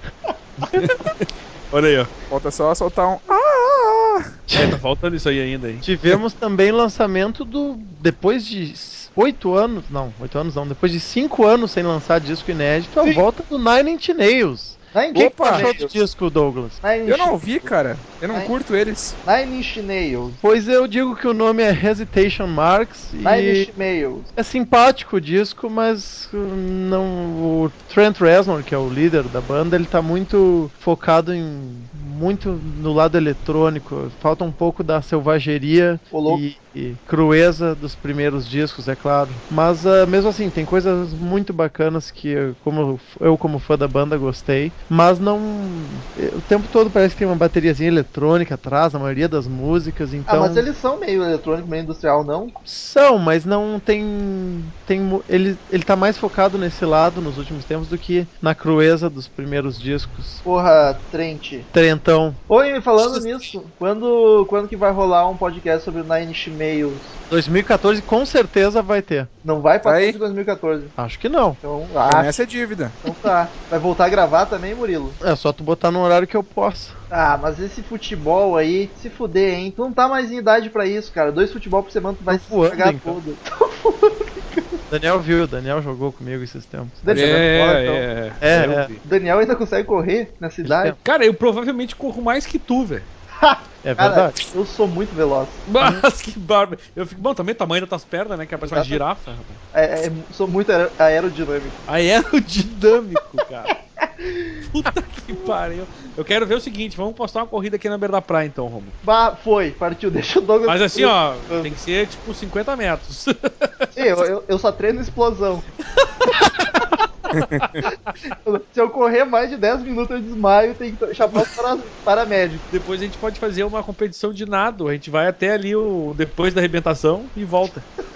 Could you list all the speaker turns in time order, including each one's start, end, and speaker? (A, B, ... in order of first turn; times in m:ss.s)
0:00.6-0:02.1 A
0:02.3-0:04.3 B
0:04.5-0:04.8 C
0:04.5-0:05.9 A
0:05.8-0:16.8 C
0:14.9-0:15.7 D
0:15.1-0:15.9 B
0:16.8-0:17.4 D
0:17.0-0:19.2 B
0:19.2-0:20.4 D
0:20.4-0:23.7 C
0:23.2-0:24.3 D
0:24.4-0:50.6 C
0:36.1-0:36.4 D
0:50.3-0:52.5 D
0:52.6-1:00.4 C
1:00.4-1:01.7 D
1:01.7-1:02.4 C
1:02.5-1:07.1 D
1:07.3-1:09.3 C
1:09.4-1:11.0 D
1:09.8-1:10.2 B
1:11.0-1:11.6 C
1:11.6-1:12.4 D
1:12.0-1:13.0 B
1:13.0-1:15.2 D
1:15.2-1:17.0 C
1:17.1-1:24.8 D
1:22.3-1:23.2 C
1:24.9-1:27.4 C
1:27.0-1:28.0 D
1:27.1-1:29.0 A
1:28.4-1:28.9 C
1:29.0-1:31.0 D
1:30.6-1:31.0 C
1:31.0-1:33.0 A
1:33.4-1:35.6 D
1:33.8-1:34.4 C
1:35.7-1:39.6 A
1:38.6-1:39.0 D
1:39.7-1:41.8 D
1:41.9-1:43.7 A
1:44.0-1:44.5 D
1:44.6-1:48.9 A
1:49.0-1:51.7 D
1:50.7-1:53.9 A
1:53.9-1:55.6 D
1:57.3-1:57.8 B
1:57.6-1:58.1 A
1:58.3-2:02.6 D
2:02.7-2:07.8 A